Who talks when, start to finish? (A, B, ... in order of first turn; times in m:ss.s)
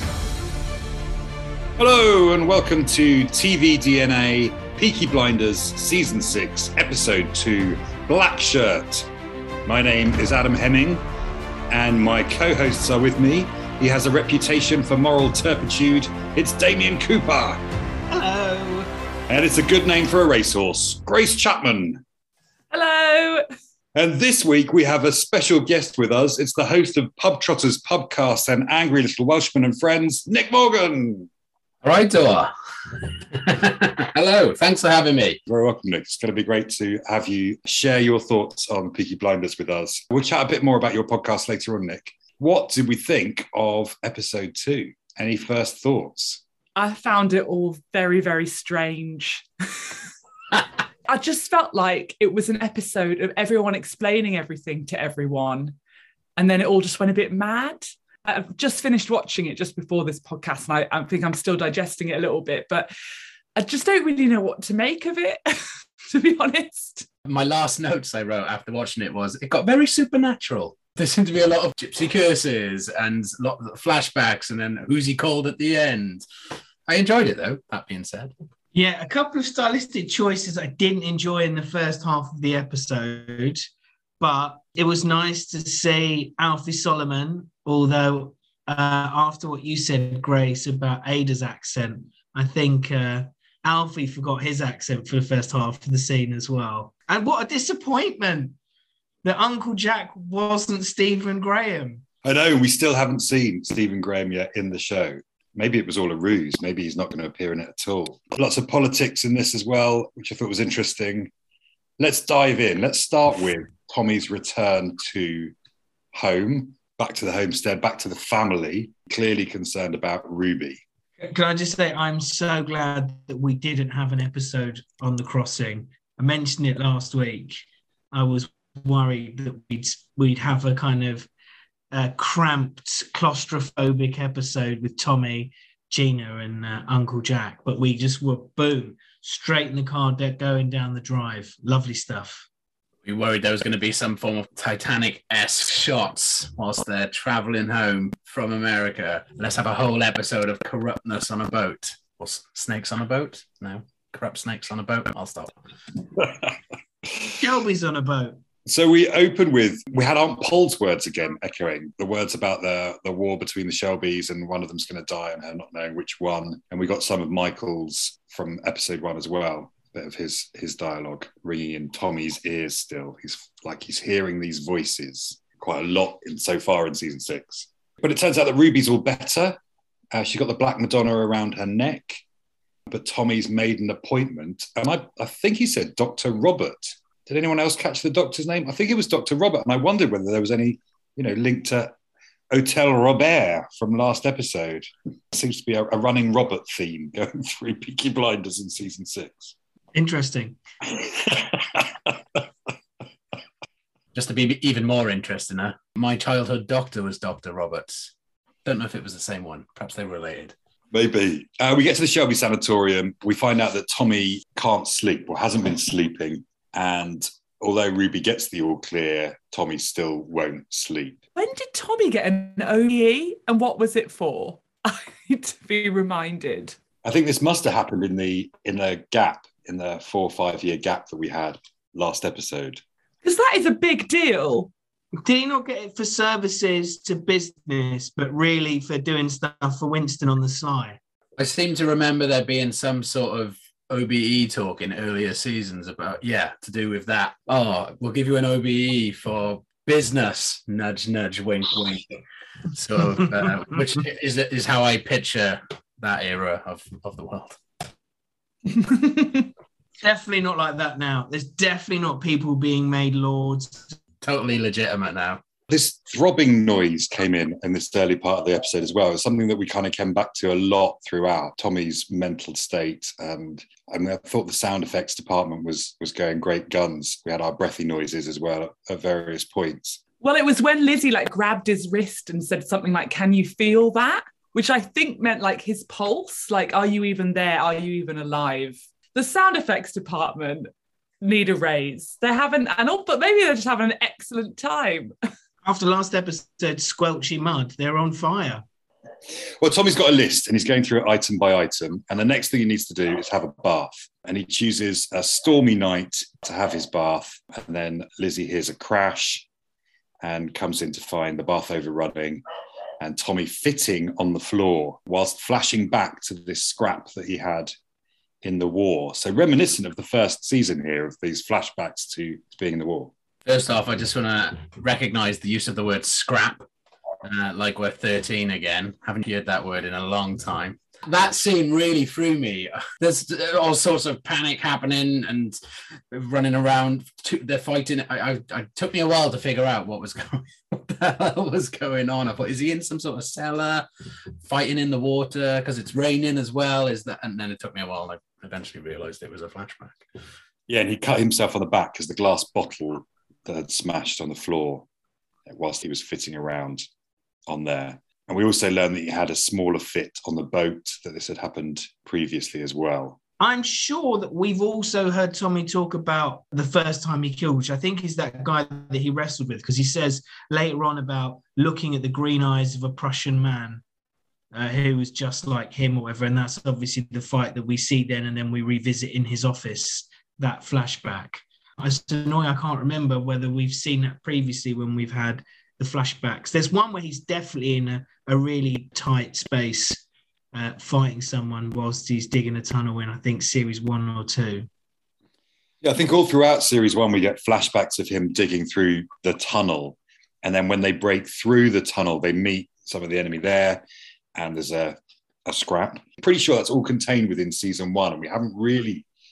0:01.8-0:09.1 A
0:09.6-0:11.0 A
0:11.7-0:17.6 A
0:18.1-0:18.9 B
0:19.3-0:22.0 A
0:22.7-0:23.4 C
0:24.0-0:31.3 A
0:31.8-0:35.4 D
0:35.5-0:46.4 A
0:46.8-0:50.0 C
0:51.1-0:55.8 C
0:56.4-1:02.9 C
1:03.6-1:07.0 C
1:07.2-1:16.2 D
1:16.9-1:18.3 D
1:18.7-1:23.6 B
1:24.2-1:38.6 B
1:39.2-1:42.0 B
1:42.2-1:51.3 A
1:52.0-1:55.5 A
1:56.1-2:00.8 A
2:01.2-2:11.3 B
2:11.9-2:22.5 B
2:23.0-2:35.5 D
2:37.4-2:38.4 B
2:38.7-2:59.6 A
3:00.1-3:02.2 A
3:02.9-3:11.9 A
3:12.5-3:19.5 A
3:19.9-3:20.6 B
3:24.1-3:28.1 D
3:28.6-3:30.5 D
3:30.9-3:41.2 A
3:41.3-3:46.8 C
3:47.0-3:52.8 A
3:53.2-3:54.7 C
3:55.2-4:01.0 B
4:01.4-4:12.2 D
4:12.7-4:17.9 D
4:18.7-4:19.5 C
4:20.0-4:24.0 B
4:24.2-4:25.4 D
4:25.7-4:40.0 A
4:40.2-4:50.7 C
4:51.2-4:55.1 C
4:55.6-4:58.6 B
4:59.6-5:09.5 A
5:10.2-5:12.4 A
5:13.0-5:17.7 A
5:18.4-5:23.1 A
5:23.4-5:26.7 D
5:27.2-5:35.6 D
5:36.1-5:43.9 D
5:44.4-5:50.0 D
5:50.7-5:54.9 A
5:55.5-5:56.8 A
5:57.5-6:03.2 A
6:03.4-6:13.8 B
6:14.5-6:34.7 B
6:35.8-6:43.8 A
6:44.4-6:49.1 A